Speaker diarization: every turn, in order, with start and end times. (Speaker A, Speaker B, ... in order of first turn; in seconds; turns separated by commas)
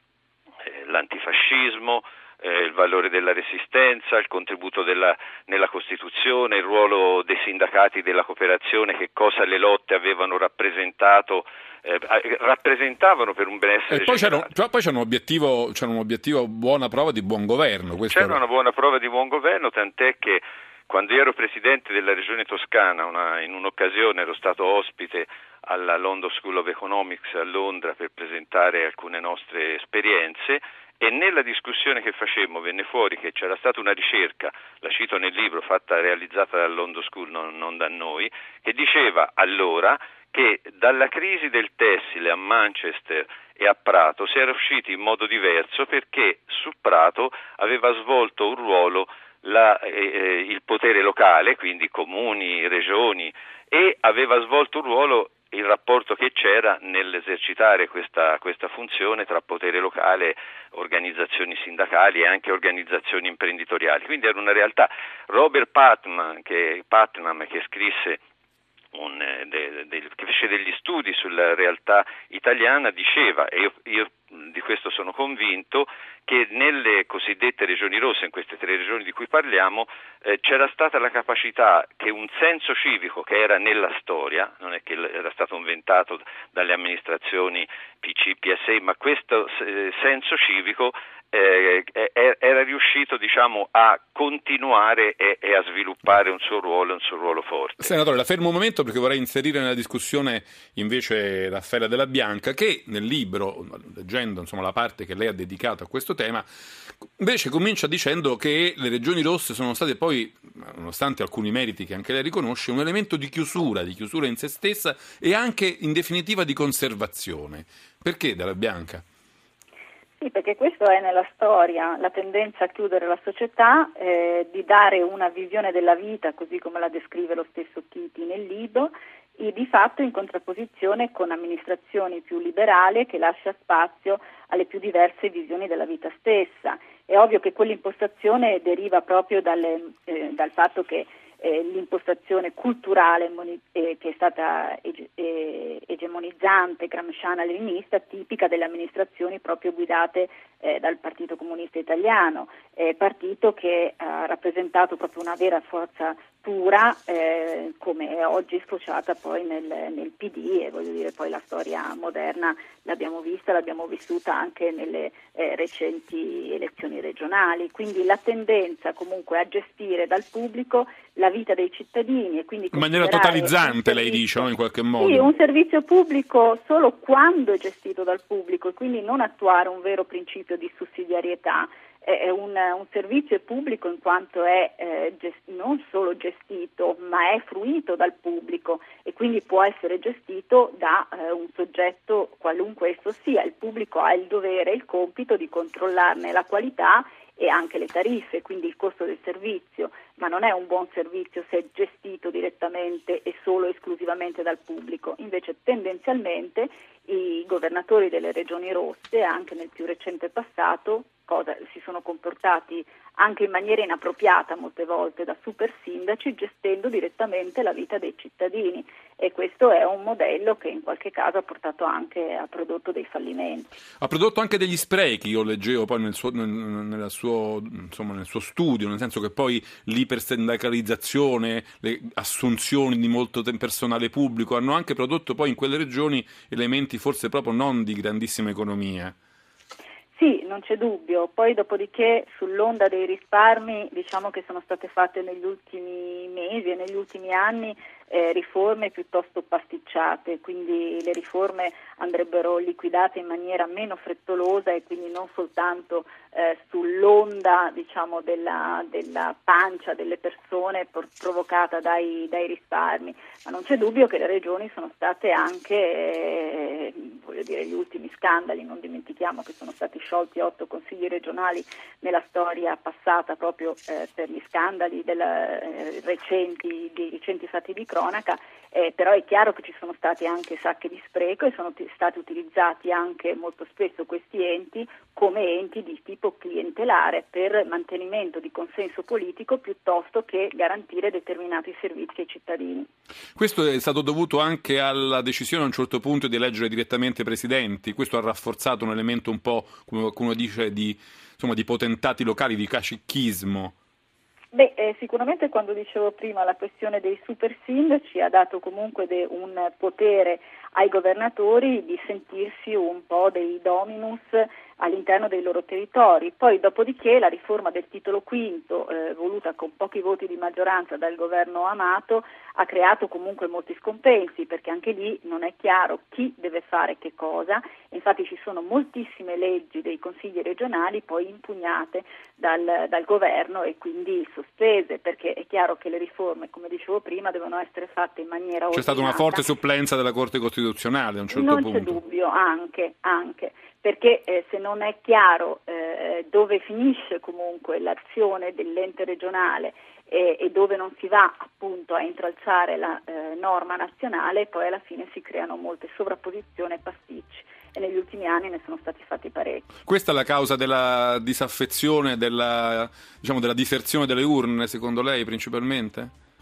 Speaker A: 0.6-14.5, Speaker B: 13.9-18.4, Speaker A: 18.1-68.2, Speaker A: 68.9-97.9, Speaker B: 97.8-106.5, Speaker B: 107.0-119.0, Speaker C: 120.2-174.4, Speaker B: 172.7-175.3, Speaker C: 175.0-223.7, Speaker B: 224.0-239.1, Speaker C: 240.1-292.9, Speaker B: 293.4-303.7, Speaker C: 304.5-339.5, Speaker B: 338.7-342.0, Speaker C: 341.3-359.7, Speaker B: 359.8-366.1